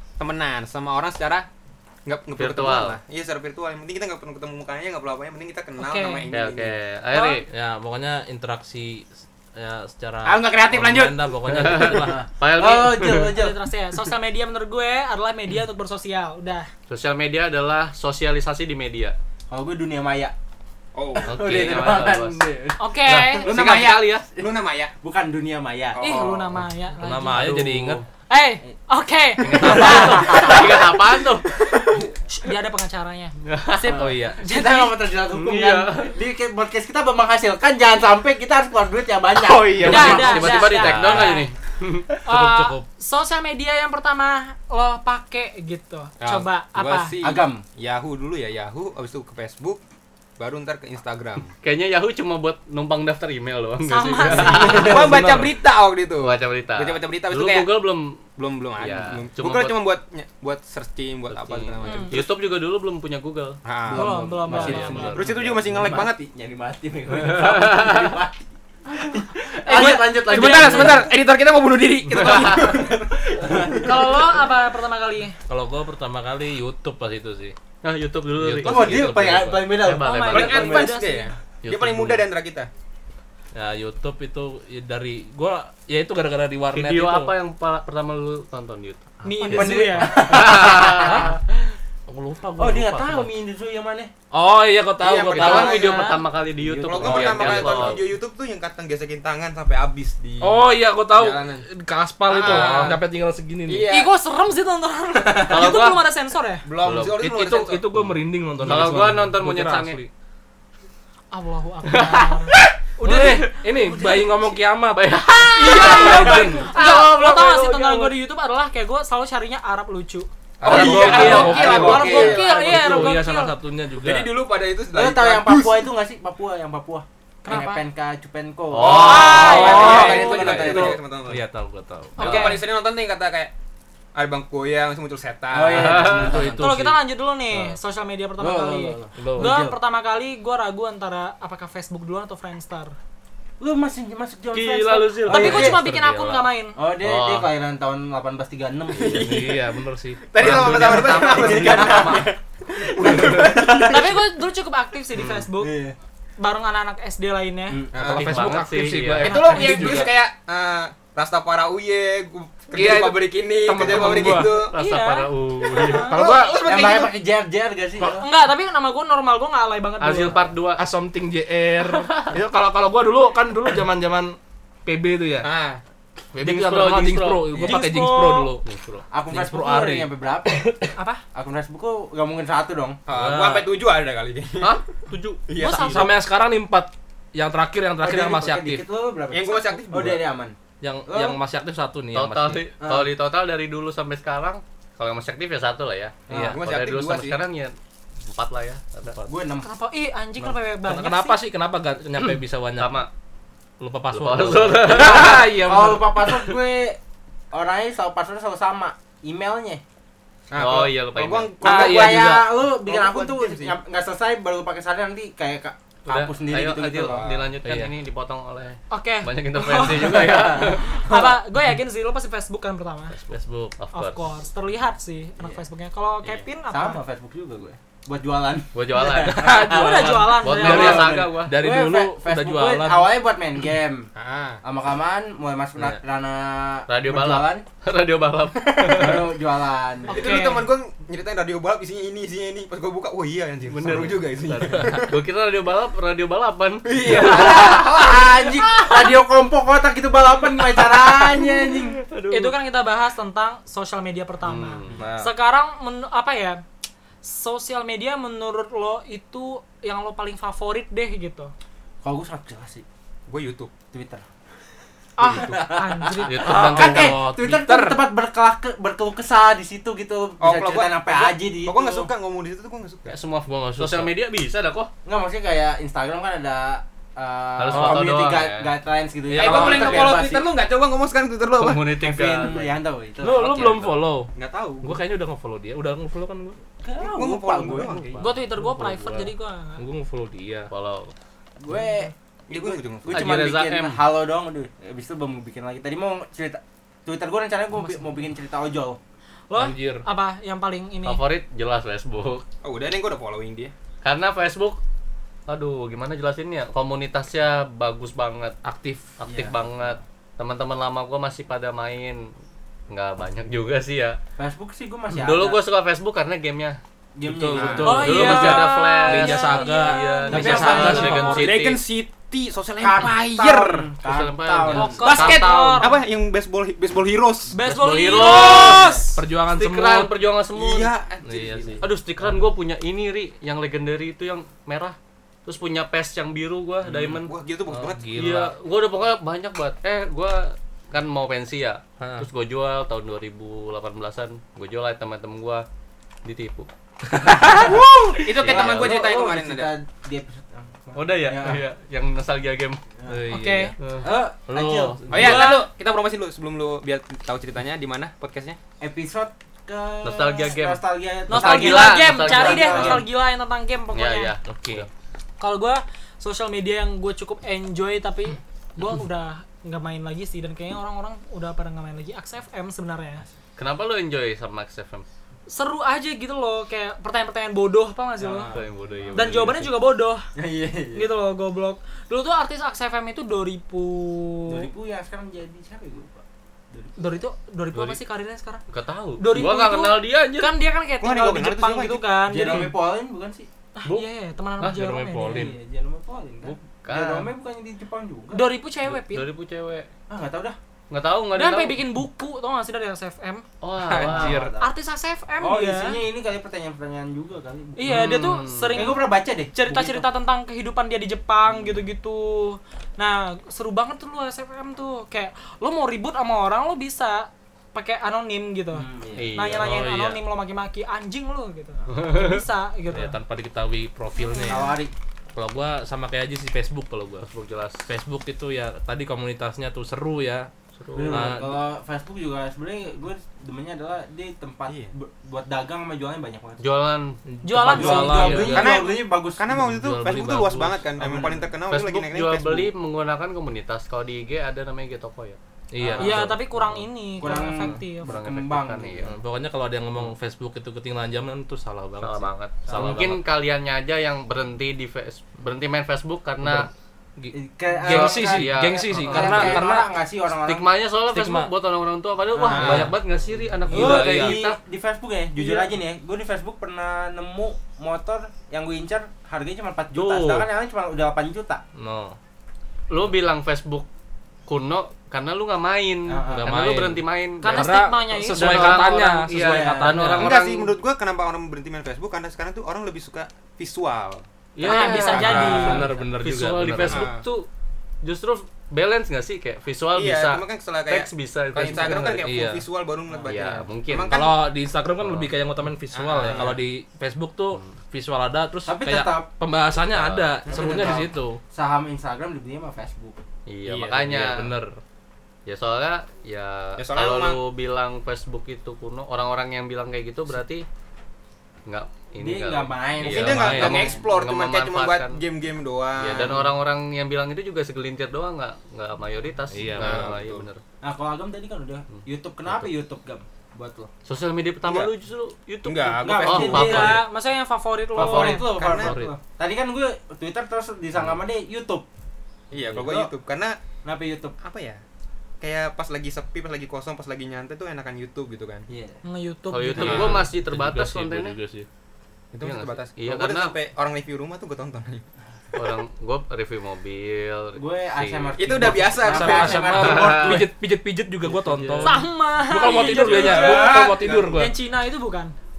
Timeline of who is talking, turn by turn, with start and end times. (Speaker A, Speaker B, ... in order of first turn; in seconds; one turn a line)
Speaker A: 0.2-1.5
Speaker A: 2.1-6.8
Speaker B: 2.4-3.0
Speaker C: 5.8-6.3
Speaker B: 6.3-7.5
Speaker C: 7.1-7.5
Speaker D: 7.5-12.2
Speaker A: 10.2-11.3
Speaker B: 11.5-13.3
Speaker E: 11.9-13.6
Speaker C: 13.3-16.7
Speaker B: 16.9-19.2
Speaker E: 19.5-20.4
Speaker A: 20.9-21.4
Speaker E: 21.1-23.8
Speaker B: 21.3-22.4
Speaker C: 22.8-23.5
Speaker B: 23.1-24.3
Speaker A: 23.4-24.9
Speaker E: 25.0-26.3
Speaker A: 25.9-26.6
Speaker C: 26.0-27.5
Speaker D: 27.0-28.0
Speaker B: 27.3-28.0
Speaker C: 28.3-30.6
Speaker B: 29.4-31.5
Speaker E: 29.6-30.9
Speaker C: 31.7-35.0
Speaker B: 33.4-33.9
Speaker E: 33.8-41.0
Speaker D: 34.0-34.4
Speaker B: 35.3-36.2
Speaker D: 39.4-41.4
Speaker B: 39.8-42.1
Speaker C: 39.8-41.5
Speaker D: 42.2-42.9
Speaker C: 42.3-47.1
Speaker A: 46.2-49.8
Speaker E: 47.2-47.6
Speaker A: 50.4-51.5
Speaker B: 51.6-55.0
Speaker C: 53.9-55.0
Speaker E: 54.3-55.2
Speaker A: 54.5-57.8
Speaker D: 54.9-55.5
Speaker B: 56.2-58.2
Speaker A: 58.4-62.3
Speaker B: 58.8-59.8
Speaker B: 61.3-63.6
Speaker C: 61.8-62.2
Speaker A: 63.6-64.1
Speaker E: 63.9-71.1
Speaker C: 63.9-65.0
Speaker D: 64.5-65.4
Speaker A: 65.0-66.2
Speaker B: 67.1-68.1
Speaker A: 69.7-74.0
Speaker C: 69.7-71.1
Speaker B: 72.1-72.8
Speaker E: 72.1-74.2
Speaker C: 73.8-75.4
Speaker D: 75.5-77.5
Speaker B: 77.8-79.1
Speaker D: 78.4-79.7
Speaker E: 78.6-80.9
Speaker B: 79.6-81.0
Speaker C: 80.0-81.3
Speaker A: 80.3-82.7
Speaker B: 81.6-82.3
Speaker D: 83.5-87.3
Speaker B: 86.7-91.4
Speaker C: 89.2-90.2
Speaker E: 89.5-91.3
Speaker D: 90.4-91.4
Speaker D: 92.1-93.3
Speaker E: 92.6-94.1
Speaker D: 94.3-95.9
Speaker A: 95.0-96.2
Speaker E: 95.1-95.6
Speaker B: 95.3-98.1
Speaker C: 95.6-96.2
Speaker E: 96.5-98.0
Speaker A: 96.8-101.7
Speaker D: 97.1-97.4
Speaker D: 100.4-103.9
Speaker A: 102.3-103.1
Speaker A: 103.7-104.1
Speaker C: 103.9-106.7
Speaker B: 105.5-106.0
Speaker A: 106.7-107.9
Speaker B: 106.8-107.2
Speaker D: 107.1-110.0
Speaker B: 108.0-110.1
Speaker A: 108.6-109.0
Speaker C: 111.3-113.5
Speaker B: 111.9-114.1
Speaker D: 113.0-117.7
Speaker B: 114.9-118.1
Speaker C: 115.6-123.5
Speaker D: 120.6-124.3
Speaker A: 120.6-122.5
Speaker E: 120.7-123.0
Speaker B: 120.7-121.7
Speaker A: 124.0-125.9
Speaker E: 124.9-131.0
Speaker C: 127.4-127.8
Speaker B: 128.7-129.9
Speaker A: 128.9-131.5
Speaker C: 129.0-130.4
Speaker D: 129.2-132.4
Speaker C: 132.2-132.6
Speaker A: 132.2-133.5
Speaker A: 134.1-136.3
Speaker E: 135.5-136.8
Speaker B: 135.7-136.4
Speaker D: 136.0-137.0
Speaker C: 136.6-143.0
Speaker E: 138.4-139.8
Speaker D: 139.2-139.6
Speaker E: 143.6-145.8
Speaker D: 144.5-146.4
Speaker C: 145.2-146.8
Speaker B: 145.9-146.4
Speaker E: 146.8-149.3
Speaker B: 147.0-147.5
Speaker A: 148.9-149.7
Speaker D: 149.0-151.9
Speaker A: 150.3-154.0
Speaker B: 150.4-152.3
Speaker E: 150.5-152.3
Speaker E: 153.0-154.1
Speaker C: 153.7-155.7
Speaker B: 155.2-155.4
Speaker E: 155.6-156.0
Speaker C: 156.4-157.8
Speaker E: 157.7-158.2
Speaker A: 157.9-158.5
Speaker B: 158.0-159.3
Speaker D: 158.1-160.2
Speaker A: 159.2-164.7
Speaker C: 159.2-160.1
Speaker D: 162.7-164.6
Speaker B: 163.9-166.2
Speaker C: 164.7-166.3
Speaker A: 165.6-167.1
Speaker D: 166.1-166.7
Speaker E: 166.6-168.2
Speaker C: 168.1-170.4
Speaker B: 170.0-170.8
Speaker D: 170.8-175.5
Speaker B: 171.9-172.3
Speaker A: 175.4-175.8
Speaker B: 176.3-177.6
Speaker D: 176.4-178.6
Speaker C: 177.6-178.6
Speaker B: 178.7-179.0
Speaker E: 179.1-180.7
Speaker D: 179.3-180.9
Speaker C: 181.0-181.2
Speaker E: 181.3-183.0
Speaker A: 183.1-184.8
Speaker D: 183.1-183.7
Speaker B: 184.6-185.4
Speaker A: 185.5-186.2
Speaker C: 185.6-186.1
Speaker D: 185.6-188.8
Speaker E: 188.0-190.6
Speaker A: 189.3-190.2
Speaker D: 190.8-192.7
Speaker E: 191.1-191.4
Speaker B: 192.1-199.3
Speaker E: 192.8-193.1
Speaker E: 196.3-196.6
Speaker A: 196.3-197.4
Speaker D: 196.3-196.6
Speaker E: 199.3-199.7
Speaker C: 199.6-201.4
Speaker D: 200.8-203.1
Speaker B: 202.8-203.1
Speaker D: 203.8-206.4
Speaker B: 204.1-205.4
Speaker E: 204.9-207.0
Speaker E: 207.5-209.8
Speaker A: 210.5-213.8
Speaker B: 210.6-211.6
Speaker E: 211.6-217.3
Speaker D: 211.6-212.6
Speaker B: 216.1-221.1
Speaker A: 217.0-217.5
Speaker D: 217.6-217.9
Speaker C: 218.9-223.2
Speaker E: 219.9-221.3
Speaker D: 223.3-223.8
Speaker B: 223.8-224.2
Speaker C: 223.9-227.0
Speaker E: 226.7-234.1
Speaker B: 228.7-231.5
Speaker D: 229.3-233.1
Speaker C: 229.6-231.0
Speaker A: 234.2-234.6
Speaker E: 234.6-237.6
Speaker B: 236.9-239.3
Speaker E: 238.9-240.2
Speaker A: 240.1-245.2
Speaker C: 240.1-240.7
Speaker B: 243.7-247.2
Speaker A: 246.9-248.5
Speaker E: 246.9-252.0
Speaker B: 251.0-252.6
Speaker C: 252.3-256.6
Speaker B: 254.4-255.0
Speaker E: 254.9-255.3
Speaker C: 257.2-261.5
Speaker E: 262.0-262.9
Speaker A: 263.3-263.7
Speaker E: 263.9-264.2
Speaker C: 265.2-266.4
Speaker E: 265.2-272.1
Speaker B: 266.2-267.2
Speaker D: 266.4-268.0
Speaker A: 270.4-273.2
Speaker B: 273.1-274.9
Speaker D: 273.4-274.1
Speaker E: 275.1-280.5
Speaker B: 277.6-278.7
Speaker D: 277.7-278.0
Speaker D: 279.3-280.2
Speaker A: 279.4-282.0
Speaker B: 281.6-282.7
Speaker E: 282.0-283.9
Speaker D: 283.2-286.6
Speaker A: 284.4-285.0
Speaker E: 286.8-288.0
Speaker A: 287.0-288.2
Speaker B: 287.8-288.3
Speaker D: 288.0-290.7
Speaker C: 288.2-289.8
Speaker B: 290.7-291.1
Speaker E: 291.6-299.0
Speaker A: 292.5-293.4
Speaker B: 293.1-294.0
Speaker C: 299.5-301.2
Speaker D: 299.6-300.1
Speaker B: 301.0-302.4
Speaker A: 302.6-303.7
Speaker B: 304.0-304.8
Speaker B: 305.5-308.6
Speaker D: 308.6-309.2
Speaker B: 309.2-312.3
Speaker E: 309.3-309.5
Speaker B: 312.9-314.2
Speaker E: 314.4-315.6
Speaker B: 315.1-316.8
Speaker E: 317.1-318.1
Speaker D: 317.2-321.8
Speaker A: 317.5-317.9
Speaker C: 317.8-321.4
Speaker B: 317.8-321.7
Speaker E: 320.3-321.4
Speaker A: 320.9-323.9
Speaker E: 322.8-325.0
Speaker B: 324.1-325.9
Speaker C: 324.7-326.0
Speaker A: 325.0-327.5
Speaker C: 327.5-329.1
Speaker B: 327.6-329.0
Speaker D: 328.3-328.6
Speaker E: 328.5-329.1
Speaker D: 329.1-330.1
Speaker B: 329.5-330.9
Speaker A: 330.6-331.8
Speaker D: 331.2-332.4
Speaker B: 331.8-337.3
Speaker A: 336.9-338.1
Speaker D: 337.7-338.5
Speaker B: 338.1-345.7
Speaker D: 342.0-342.3
Speaker B: 346.2-346.7
Speaker D: 347.1-347.8
Speaker E: 347.4-347.9
Speaker A: 347.5-349.7
Speaker B: 348.4-348.9
Speaker E: 348.4-351.6
Speaker B: 350.9-352.8
Speaker D: 353.1-353.8
Speaker C: 353.3-353.7
Speaker B: 353.8-354.1
Speaker E: 354.0-355.0
Speaker D: 354.5-355.5
Speaker A: 355.1-358.6
Speaker C: 355.1-355.7
Speaker E: 358.8-363.1
Speaker B: 360.0-363.1
Speaker C: 361.3-364.3
Speaker B: 363.9-364.9
Speaker D: 364.5-364.9
Speaker C: 365.4-373.2
Speaker B: 373.6-375.1
Speaker C: 375.5-378.5
Speaker E: 378.2-379.4
Speaker B: 378.5-379.7
Speaker C: 379.1-380.3
Speaker E: 380.4-381.1
Speaker C: 380.9-384.7
Speaker E: 384.5-387.2
Speaker C: 387.0-388.6
Speaker B: 388.7-390.6
Speaker C: 389.2-392.7
Speaker A: 391.0-392.1
Speaker E: 392.3-393.5
Speaker C: 393.8-395.5
Speaker D: 394.6-395.6
Speaker E: 395.3-398.4
Speaker B: 396.4-397.3
Speaker C: 398.3-399.3
Speaker B: 398.9-399.9
Speaker E: 400.1-400.6
Speaker B: 400.9-401.8
Speaker C: 401.3-403.4
Speaker B: 403.6-404.4
Speaker D: 403.9-404.6
Speaker E: 403.9-404.7
Speaker C: 404.6-406.0
Speaker E: 405.4-408.0
Speaker C: 407.8-423.2
Speaker B: 407.9-408.9
Speaker E: 408.7-410.1
Speaker E: 418.7-419.6
Speaker B: 419.2-420.2
Speaker D: 419.6-420.1
Speaker B: 421.9-422.4
Speaker D: 422.9-424.7
Speaker C: 424.1-424.8
Speaker E: 424.5-424.9
Speaker D: 425.4-427.3
Speaker B: 427.2-427.9
Speaker D: 427.9-430.5
Speaker B: 430.8-431.4
Speaker E: 430.9-436.6
Speaker D: 431.1-431.6
Speaker B: 436.6-437.2
Speaker D: 437.3-438.7
Speaker C: 437.4-438.6
Speaker E: 437.7-439.5
Speaker B: 438.1-438.5
Speaker A: 438.5-442.7
Speaker D: 439.6-440.8
Speaker E: 441.0-441.5
Speaker B: 441.7-445.4
Speaker D: 445.7-446.5
Speaker E: 445.8-446.3
Speaker C: 446.0-448.1
Speaker E: 447.2-449.1
Speaker B: 448.0-449.1
Speaker D: 449.0-453.2
Speaker B: 452.0-456.7
Speaker D: 456.4-459.9
Speaker E: 457.3-460.7
Speaker B: 457.9-459.7
Speaker B: 460.4-464.6
Speaker D: 461.1-461.5
Speaker E: 462.3-462.9
Speaker A: 462.4-462.9
Speaker D: 462.5-463.0
Speaker D: 463.7-464.4
Speaker E: 463.7-471.6
Speaker C: 465.4-465.7
Speaker D: 469.9-470.5
Speaker D: 471.8-472.2
Speaker B: 472.9-473.9
Speaker B: 474.5-480.7
Speaker E: 476.1-476.5
Speaker D: 476.3-480.4
Speaker C: 477.4-478.8
Speaker E: 479.3-480.1
Speaker A: 480.1-485.8
Speaker B: 484.6-487.5
Speaker C: 484.6-485.9
Speaker D: 485.0-487.1
Speaker A: 486.9-487.2
Speaker B: 488.0-492.2
Speaker A: 489.9-494.4
Speaker D: 491.8-492.6
Speaker E: 493.1-493.4
Speaker B: 493.3-494.1
Speaker D: 494.1-501.4
Speaker A: 495.9-496.6
Speaker E: 498.7-499.3
Speaker B: 499.9-500.4
Speaker E: 500.5-503.2
Speaker B: 503.5-504.5
Speaker D: 503.7-504.8
Speaker B: 505.5-510.7
Speaker A: 506.8-507.4
Speaker B: 511.7-515.2
Speaker E: 512.2-514.0
Speaker A: 513.0-516.4
Speaker D: 513.1-513.9
Speaker B: 516.0-520.6
Speaker D: 519.5-520.2
Speaker A: 519.8-520.5
Speaker E: 520.8-523.9
Speaker B: 521.9-522.7
Speaker B: 524.0-527.0
Speaker A: 524.6-524.9
Speaker A: 525.6-527.0
Speaker E: 526.0-527.0
Speaker C: 526.4-528.5
Speaker E: 527.9-531.9
Speaker B: 528.0-528.4
Speaker A: 528.5-528.9
Speaker D: 528.6-529.1
Speaker A: 532.5-533.6
Speaker E: 532.7-533.1
Speaker E: 533.8-534.4
Speaker A: 534.4-534.8
Speaker A: 535.4-538.7
Speaker E: 538.7-539.0
Speaker C: 539.0-540.2
Speaker B: 539.5-541.4
Speaker D: 539.8-541.7
Speaker A: 542.3-545.0
Speaker B: 542.4-543.5
Speaker B: 545.5-548.4
Speaker E: 547.5-550.5
Speaker A: 548.4-549.9
Speaker D: 549.0-554.5
Speaker B: 549.7-550.4
Speaker B: 551.3-552.0
Speaker C: 551.8-555.4
Speaker A: 553.0-554.4
Speaker E: 553.1-554.1